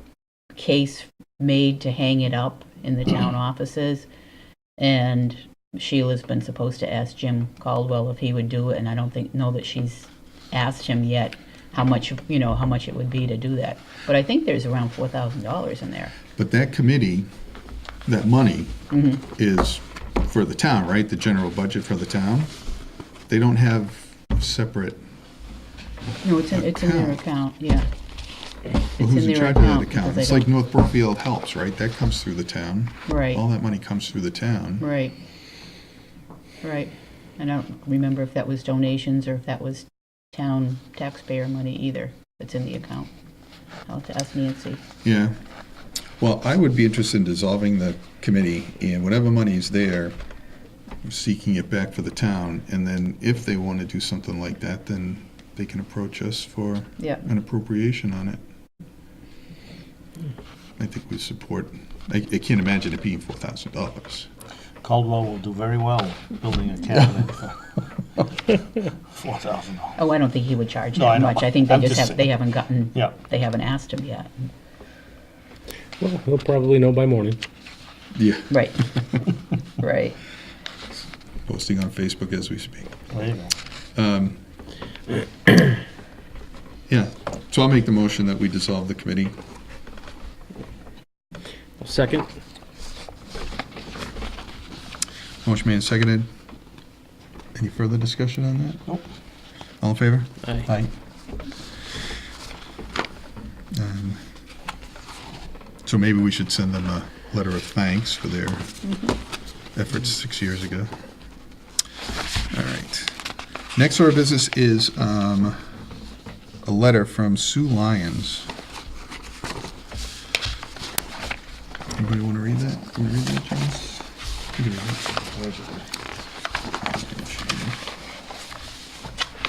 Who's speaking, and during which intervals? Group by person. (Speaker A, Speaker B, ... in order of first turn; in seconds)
Speaker A: 0.6-4.1, 4.8-16.1, 18.9-19.2, 26.2-27.9, 29.0-30.5, 33.0-33.4, 34.8-35.1, 36.6-43.1, 43.9-44.8, 57.0-57.2, 70.0-74.3, 78.5-78.8, 79.8-80.2, 108.8-109.2
Speaker B: 16.4-17.3, 18.1-22.5, 23.3-25.0, 26.5-27.2, 29.0-34.9, 45.0-45.4, 46.2-50.2, 51.0-58.4, 60.8-64.3, 78.1-79.2, 81.5-82.9, 83.9-84.4, 86.9-89.3, 95.4-96.3, 97.5-98.8, 99.8-100.9, 103.7-104.2, 105.8-108.7, 109.7-110.9, 112.5-113.2, 113.7-115.6, 116.6-118.5, 122.0-125.0, 126.8-127.8
Speaker C: 64.8-67.7, 68.8-70.0, 70.9-72.3, 83.1-83.5, 125.3-125.8
Speaker D: 76.0-77.4, 91.8-92.3